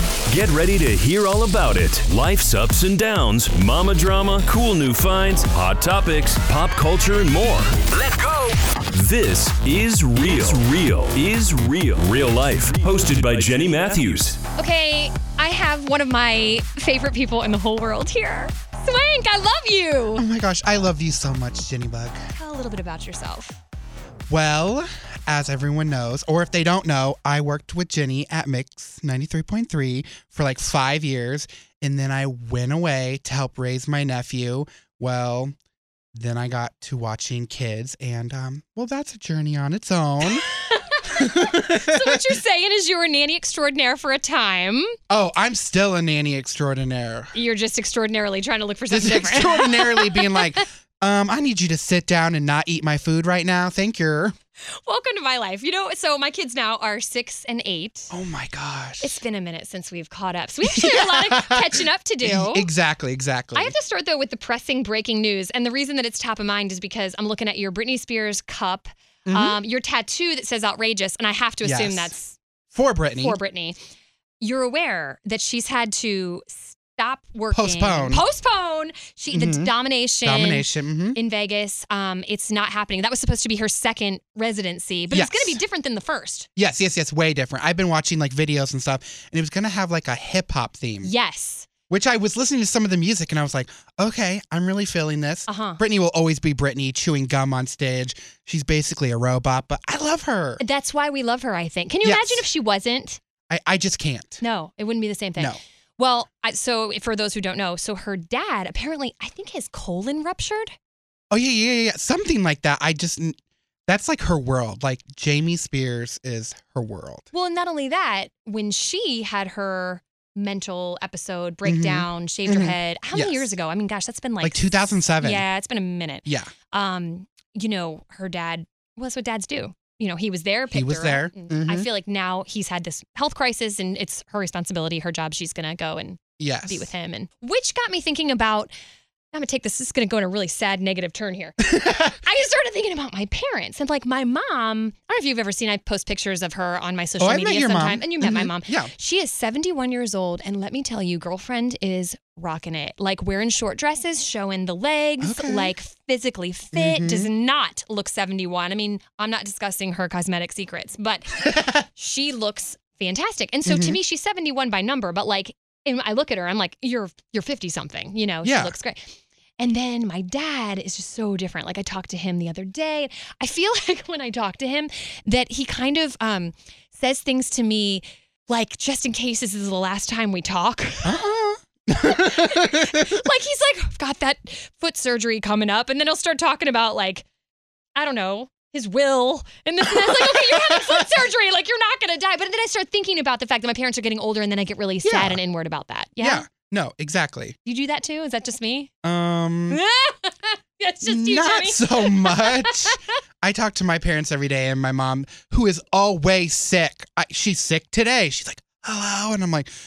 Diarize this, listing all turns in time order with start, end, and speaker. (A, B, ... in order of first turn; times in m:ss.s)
0:00.3-0:08.4 A
0:08.9-0:14.4 A
0:14.6-0:20.2 B
0:20.2-0:22.2 C
0:22.3-0:23.6 B
0:24.3-0:35.5 C
0:36.1-0:40.5 C
0:40.3-0:44.9 B
0:41.2-0:42.4 C
0:45.1-0:47.4 C
0:47.3-0:50.6 B
0:48.9-0:54.4 C
0:54.8-0:58.1 B
0:58.1-0:59.2 C
0:59.0-1:02.7 B
1:00.6-1:03.8 C
1:03.5-1:12.4 B
1:09.3-1:09.6 C
1:11.6-1:12.2 C
1:12.7-1:13.4 C
1:13.2-1:13.8 B
1:14.4-1:26.5 B
1:17.5-1:18.2 C
1:19.3-1:21.2 C
1:25.1-1:25.6 C
1:26.6-1:31.1 C
1:31.0-1:31.7 B
1:31.9-1:40.6 C
1:35.5-1:35.8 B
1:40.6-1:43.2 B
1:42.0-1:42.4 C
1:43.5-1:44.4 C
1:44.4-1:50.7 B
1:51.3-1:57.3 C
1:57.3-2:18.7 B
2:01.6-2:03.5 C
2:04.4-2:05.4 C
2:06.3-2:06.5 C
2:10.7-2:11.9 C
2:16.4-2:16.9 C
2:19.3-3:01.2 B
2:21.6-2:22.1 C
2:27.2-2:28.9 C
2:35.2-2:35.7 C
2:36.7-2:37.3 C
2:43.6-2:44.0 C
2:48.4-2:48.7 C
3:01.0-3:03.2 C
3:02.0-3:07.3 B
3:08.0-3:16.4 B
3:09.9-3:11.1 C
3:15.0-3:15.4 C
3:16.2-3:17.6 C
3:17.6-3:18.9 B
3:19.0-3:19.8 C
3:19.7-3:23.1 B
3:21.0-3:29.7 C